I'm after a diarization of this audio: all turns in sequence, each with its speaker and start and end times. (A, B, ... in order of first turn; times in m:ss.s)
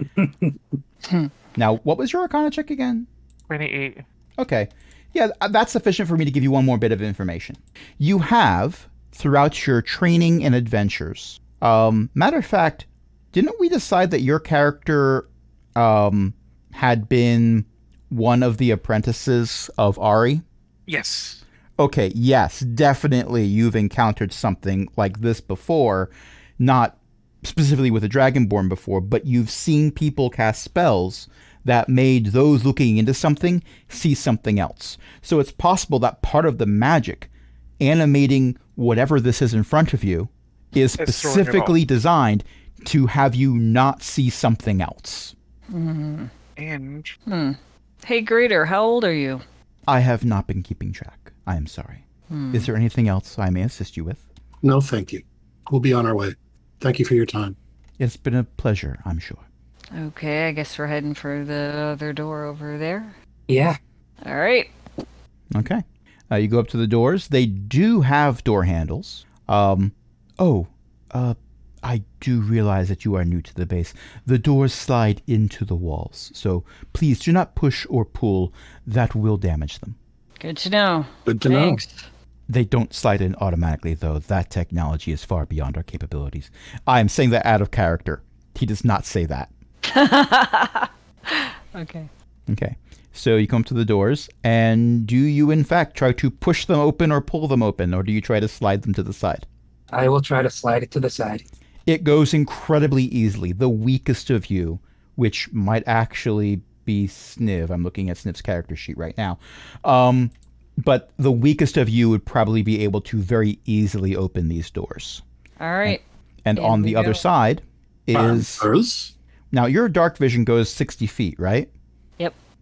0:00.2-0:00.6 A
0:01.6-0:03.1 B
0:03.5-0:04.0 C
0:04.4-0:20.4 B
0:20.9-0:21.4 C
0:21.8-0:37.3 B
0:37.8-0:45.3 B
0:41.0-0:41.7 C
0:45.7-0:46.3 D
0:46.6-0:47.2 C
0:47.3-0:49.4 D
0:49.9-0:54.2 B
0:52.3-0:52.7 D
0:54.6-0:57.6 E
0:58.0-0:59.4 B
0:59.9-1:03.2 D
1:03.5-1:03.8 A
1:04.2-1:04.7 D
1:05.5-1:20.0 B
1:20.4-1:22.0 D
1:21.3-1:21.8 E
1:22.5-1:29.5 B
1:29.8-1:32.1 D
1:32.5-1:39.5 B
1:39.9-1:41.4 A
1:41.9-1:55.2 B
1:55.6-1:56.0 D
1:55.8-1:58.7 B
1:56.6-1:57.2 D
1:58.1-1:59.1 E
1:59.5-2:01.7 B